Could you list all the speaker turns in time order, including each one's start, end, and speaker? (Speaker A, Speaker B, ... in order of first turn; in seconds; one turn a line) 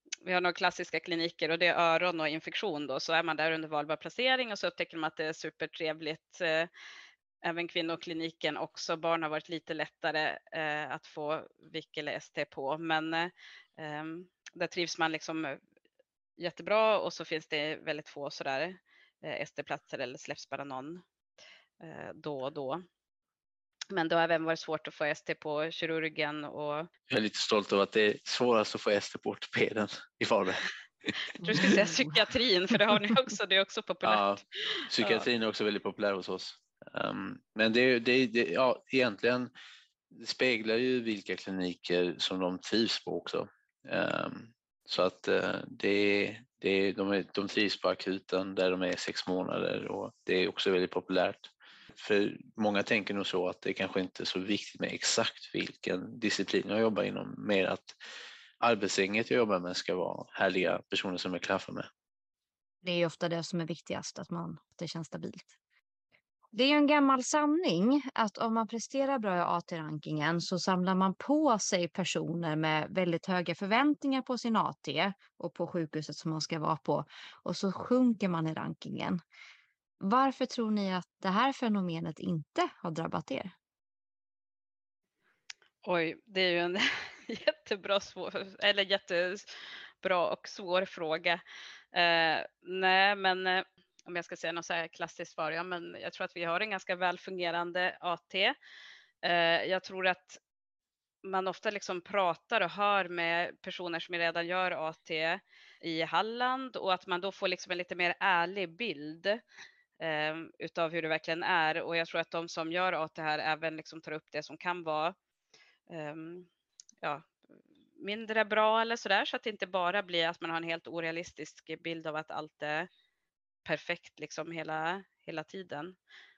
Speaker A: 0.2-6.7
Speaker A: 7.4-15.6
Speaker A: 16.4-21.0
Speaker A: 21.8-22.9
Speaker A: 23.9-26.9
Speaker B: 27.1-30.6
Speaker A: 31.4-35.2
Speaker B: 34.0-39.5
Speaker B: 40.1-57.9
Speaker B: 58.6-61.9
Speaker C: 62.8-65.5
Speaker C: 66.5-79.2
Speaker C: 80.0-83.5
Speaker A: 85.8-89.5
Speaker A: 90.0-91.4
Speaker A: 91.9-98.5
Speaker A: 99.2-100.4
Speaker A: 101.2-109.4
Speaker A: 110.0-115.2
Speaker A: 115.9-116.5
Speaker A: 117.0-117.3
Speaker A: 118.0-122.9
Speaker A: 123.6-126.0